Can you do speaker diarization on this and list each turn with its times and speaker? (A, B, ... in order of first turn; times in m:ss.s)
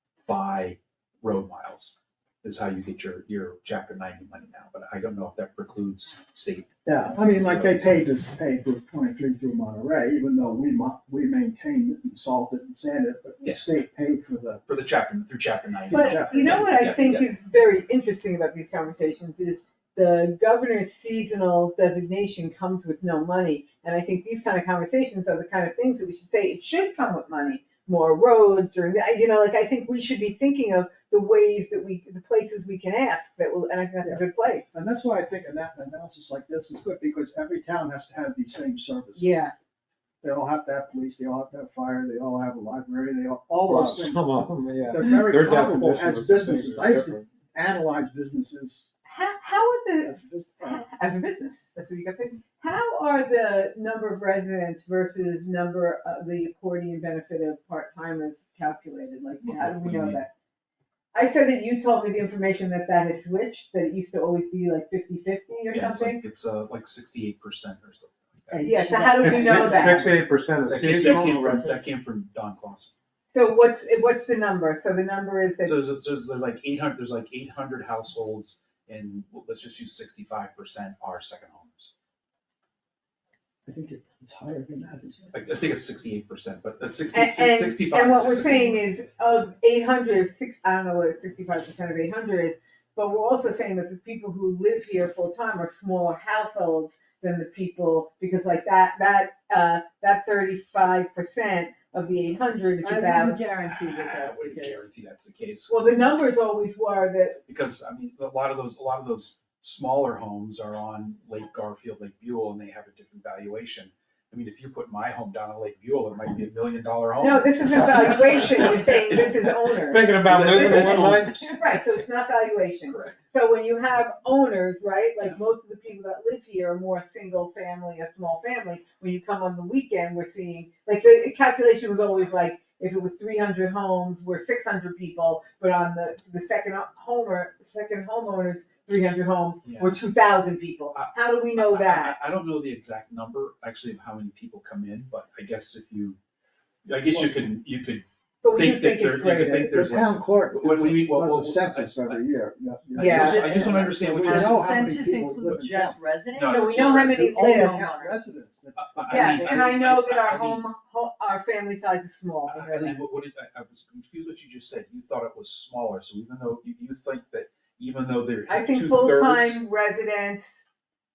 0:00.3-0:08.0 A
0:06.9-0:14.6 B
0:14.7-0:17.3 A
0:15.9-0:16.7 B
0:15.9-0:34.7 C
0:34.0-0:39.5 B
0:39.2-0:39.5 C
0:40.2-0:48.9 B
0:43.7-0:47.2 D
0:49.1-1:00.3 C
0:50.0-0:50.8 B
0:59.4-1:00.2 A
1:01.1-1:06.2 C
1:05.7-1:09.9 A
1:08.5-1:10.1 E
1:08.6-1:10.1 C
1:09.2-1:11.5 D
1:10.7-1:12.9 A
1:10.8-1:11.9 E
1:13.3-1:15.9 C
1:15.6-1:21.9 A
1:23.7-1:25.3 B
1:25.3-1:28.9 A
1:27.1-1:43.5 C
1:42.8-1:44.9 E
1:43.5-1:46.2 A
1:45.7-1:47.4 C
1:47.5-1:59.6 A
1:57.2-2:22.2 C
1:59.9-2:01.5 D
2:00.3-2:01.8 A
2:02.9-2:03.2 A
2:19.6-2:20.1 A
2:20.9-2:26.2 A
2:26.9-2:32.2 A
2:28.4-2:29.8 C
2:29.7-2:36.0 B
2:33.0-2:35.0 A
2:33.0-2:33.4 C
2:33.1-2:38.2 E
2:36.4-2:37.2 A
2:36.5-2:37.8 C
2:36.8-2:39.5 B
2:38.8-2:40.6 A
2:39.1-2:43.0 C
2:42.5-2:49.6 A
2:48.5-2:50.6 C